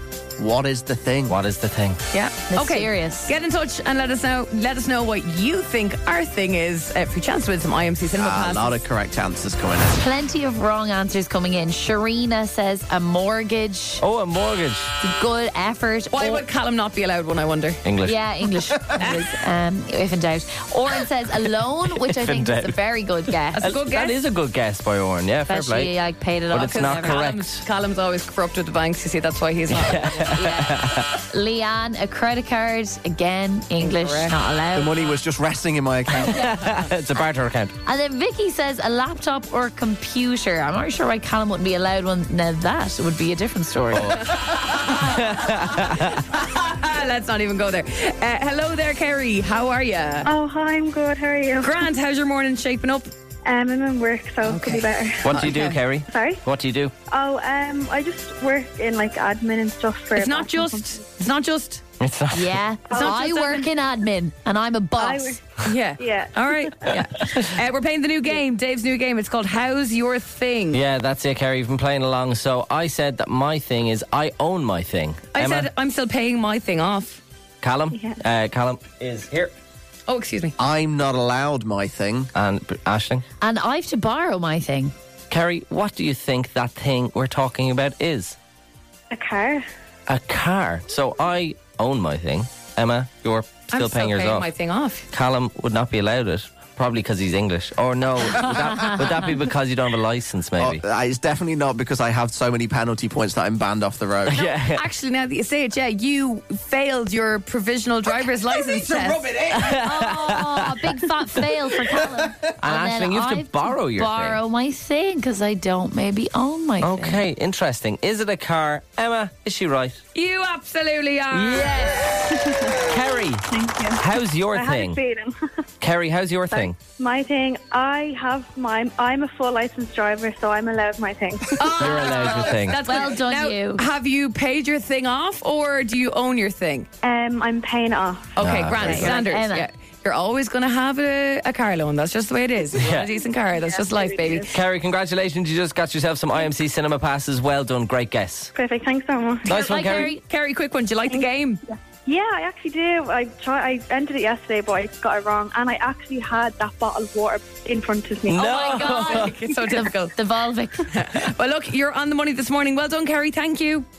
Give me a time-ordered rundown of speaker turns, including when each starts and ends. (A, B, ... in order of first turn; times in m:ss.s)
0:00.4-0:01.4 A
0:01.3-0:02.0 B
0:02.1-0:08.8 C
0:02.5-0:03.3 D
0:08.1-0:10.1 A
0:09.9-0:14.0 D
0:14.0-0:14.9 B
0:15.0-0:16.4 D
0:16.1-0:17.8 C
0:17.8-0:18.2 B
0:18.0-0:23.7 D
0:19.0-0:19.3 C
0:21.9-0:22.8 B
0:23.6-0:24.2 C
0:23.6-0:25.9 B
0:25.5-0:27.2 D
0:26.5-0:27.6 B
0:26.7-0:30.1 C
0:29.7-0:31.1 B
0:30.0-0:35.1 D
0:33.8-0:34.3 C
0:34.7-0:36.4 A
0:36.2-0:37.8 B
0:37.8-0:44.2 D
0:43.9-0:46.2 B
0:46.3-0:50.3 C
0:50.2-0:51.9 E
0:51.6-0:53.1 C
0:53.5-0:55.4 E
0:54.4-0:55.8 C
0:55.2-0:56.9 B
0:56.1-0:56.4 E
0:57.1-1:01.0 E
1:00.2-1:01.8 C
1:02.0-1:02.6 B
1:02.3-1:05.4 D
1:02.9-1:03.7 C
1:05.0-1:06.6 E
1:05.6-1:10.8 C
1:07.2-1:07.5 B
1:10.7-1:15.7 B
1:15.4-1:17.2 C
1:17.6-1:19.5 B
1:17.9-1:18.2 E
1:20.1-1:20.5 C
1:20.6-1:22.3 A
1:22.3-1:23.2 B
1:23.4-1:24.9 D
1:25.3-1:28.4 B
1:29.1-1:29.6 E
1:30.1-1:34.5 B
1:33.7-1:35.0 C
1:35.1-1:40.8 B
1:40.6-1:44.4 A
1:44.3-1:44.8 B
1:44.3-1:49.3 C
1:48.9-1:50.9 B
1:49.5-1:57.2 D
1:52.6-1:54.4 B
1:56.8-2:00.0 B
2:00.1-2:02.8 C
2:01.3-2:05.0 B
2:03.5-2:05.4 E
2:05.8-2:06.8 B
2:06.5-2:12.3 E
2:11.6-2:16.9 C
2:11.8-2:12.8 B
2:12.8-2:13.8 D
2:17.0-2:18.6 E
2:18.4-2:24.5 C
2:18.4-2:19.2 B
2:18.8-2:19.7 D
2:22.8-2:23.1 B
2:23.5-2:24.5 E
2:24.5-2:28.5 B
2:28.5-2:29.6 E
2:29.5-2:30.1 B
2:29.5-2:30.2 D
2:29.5-2:31.6 C
2:31.1-2:39.6 E
2:38.3-2:39.4 B
2:38.3-2:40.1 C
2:39.7-2:40.9 D
2:40.9-2:43.9 C